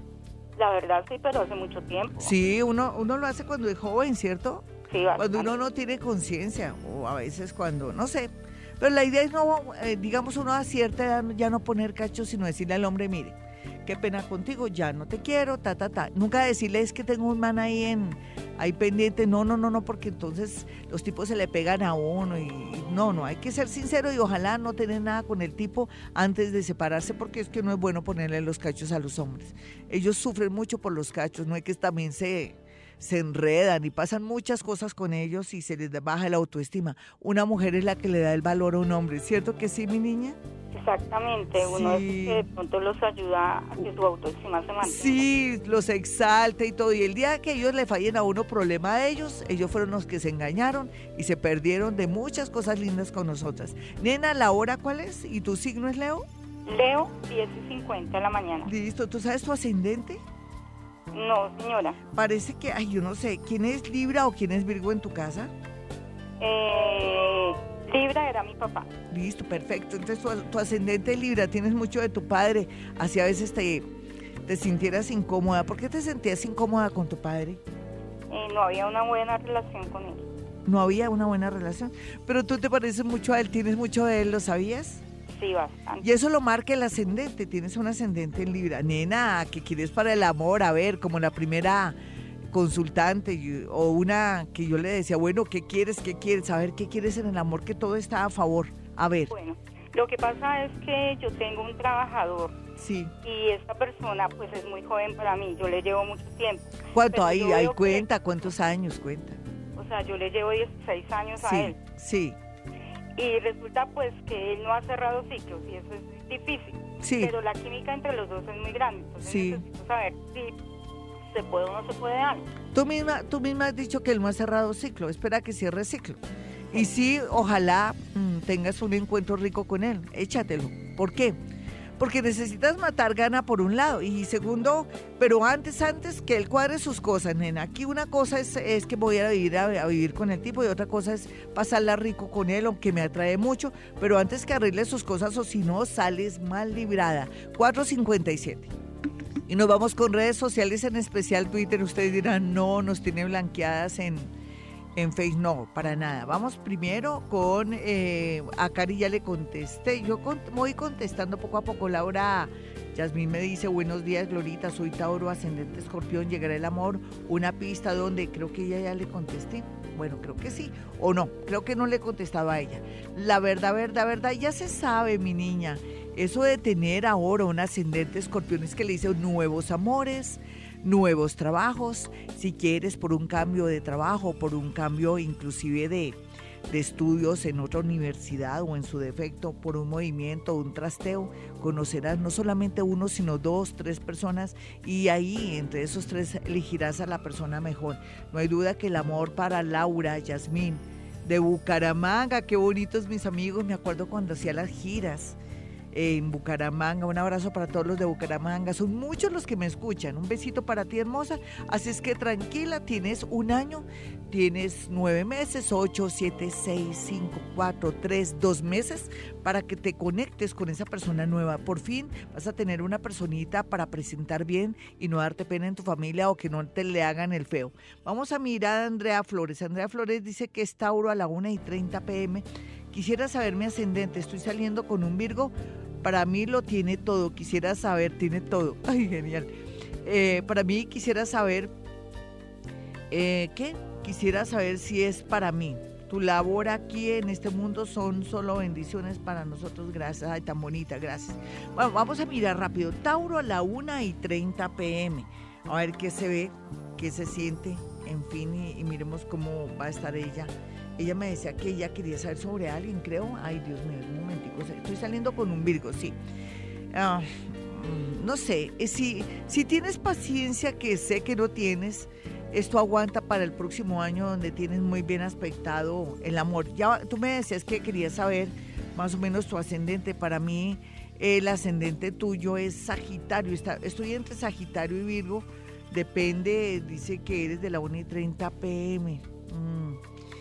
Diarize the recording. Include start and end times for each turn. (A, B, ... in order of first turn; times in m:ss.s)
0:00.6-0:02.3 A
0:02.2-0:40.4 B
0:04.9-0:05.6 A
0:40.7-0:45.2 A
0:41.6-0:42.5 B
0:44.8-0:56.2 B
0:56.7-0:58.7 A
0:58.6-1:00.2 B
1:01.1-1:02.0 A
1:02.2-1:05.5 B
1:06.4-1:08.9 A
1:09.1-1:13.8 B
1:14.5-1:17.6 B
1:18.3-1:20.3 A
1:20.7-1:25.0 B
1:25.3-1:26.0 A
1:26.0-1:32.0 B
1:32.5-1:39.3 B
1:39.3-1:42.6 A
1:42.8-1:43.1 B
1:43.2-1:48.0 A
1:46.9-1:49.4 B
1:49.8-1:51.8 A
1:51.4-1:52.4 B
1:53.2-2:00.6 A
1:57.0-1:57.3 B
1:59.2-1:59.6 B
2:01.2-2:02.4 A
2:02.7-2:06.2 B
2:06.7-2:11.4 B
2:12.0-2:28.7 B
2:29.5-2:34.3 B
2:35.0-3:06.2 B
3:06.7-3:25.4 B
3:25.9-3:59.5 B
4:00.0-4:01.7 B
4:03.1-4:26.1 B
4:26.9-4:50.0 B